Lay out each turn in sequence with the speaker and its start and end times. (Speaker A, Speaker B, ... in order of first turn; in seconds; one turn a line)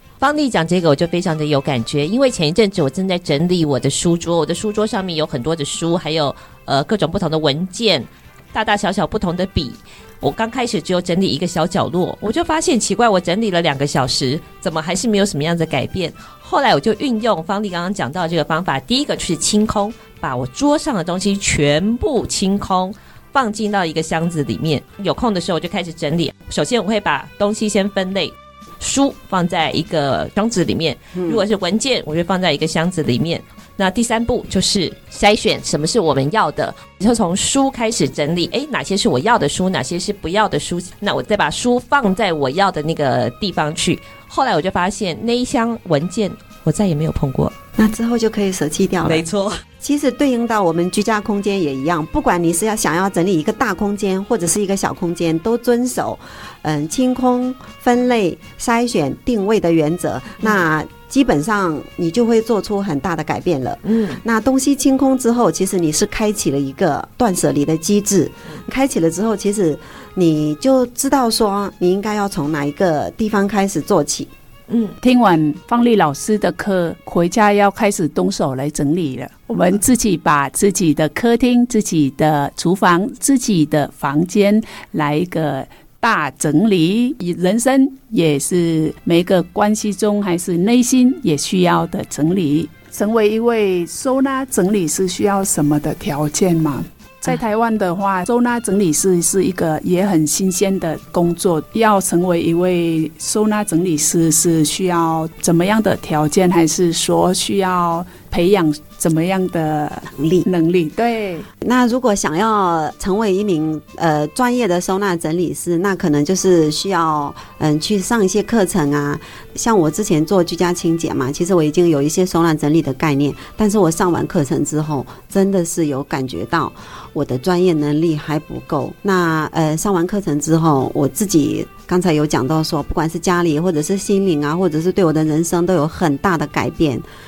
Speaker A: 0.2-47.5
Speaker B: 31.1-31.4
Speaker B: 47.8-49.2
Speaker A: 49.0-49.6
Speaker B: 49.8-74.3
Speaker A: 63.8-64.2
Speaker A: 74.7-74.9
Speaker C: 75.0-111.5
Speaker B: 110.2-110.5
Speaker B: 111.6-137.0